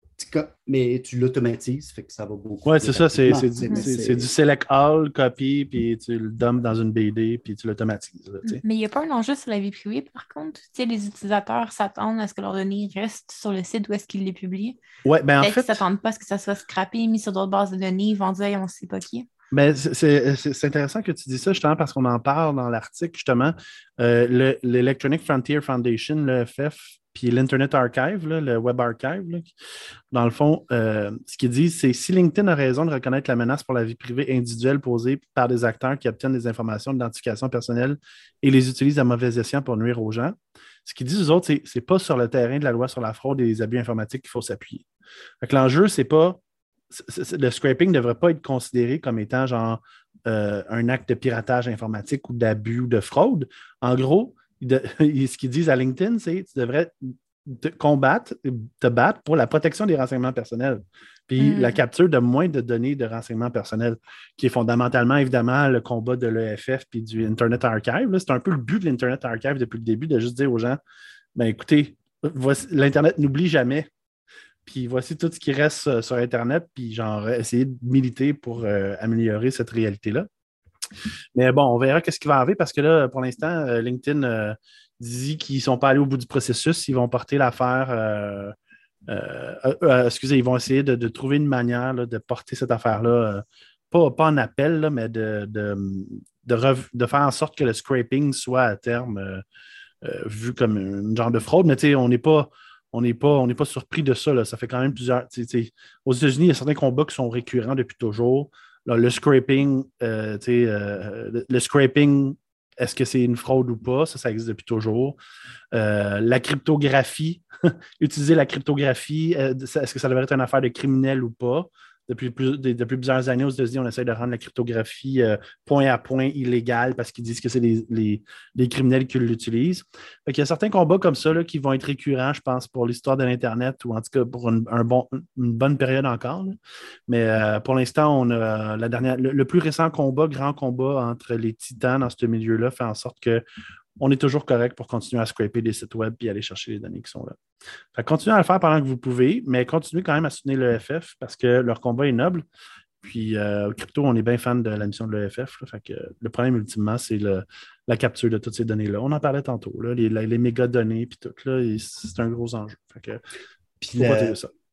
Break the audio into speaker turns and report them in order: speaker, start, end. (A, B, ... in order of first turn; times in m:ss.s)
0:00.2-0:04.3 A
0:02.6-0:08.6 B
0:08.4-0:14.8 C
0:15.0-0:15.8 B
0:15.4-0:19.3 C
0:19.5-0:29.5 B
0:30.1-0:44.8 B
0:45.4-0:46.4 B
0:46.9-0:56.9 B
0:57.4-1:10.8 B
1:01.4-1:01.8 C
1:11.4-1:13.9 B
1:14.6-1:20.3 B
1:21.3-1:28.5 B
1:29.1-1:39.4 B
1:40.0-1:55.2 B
1:55.7-2:23.4 B
2:24.0-2:27.4 B
2:27.9-2:32.4 B
2:33.0-2:43.2 B
2:43.8-2:44.4 A
2:44.0-2:44.5 B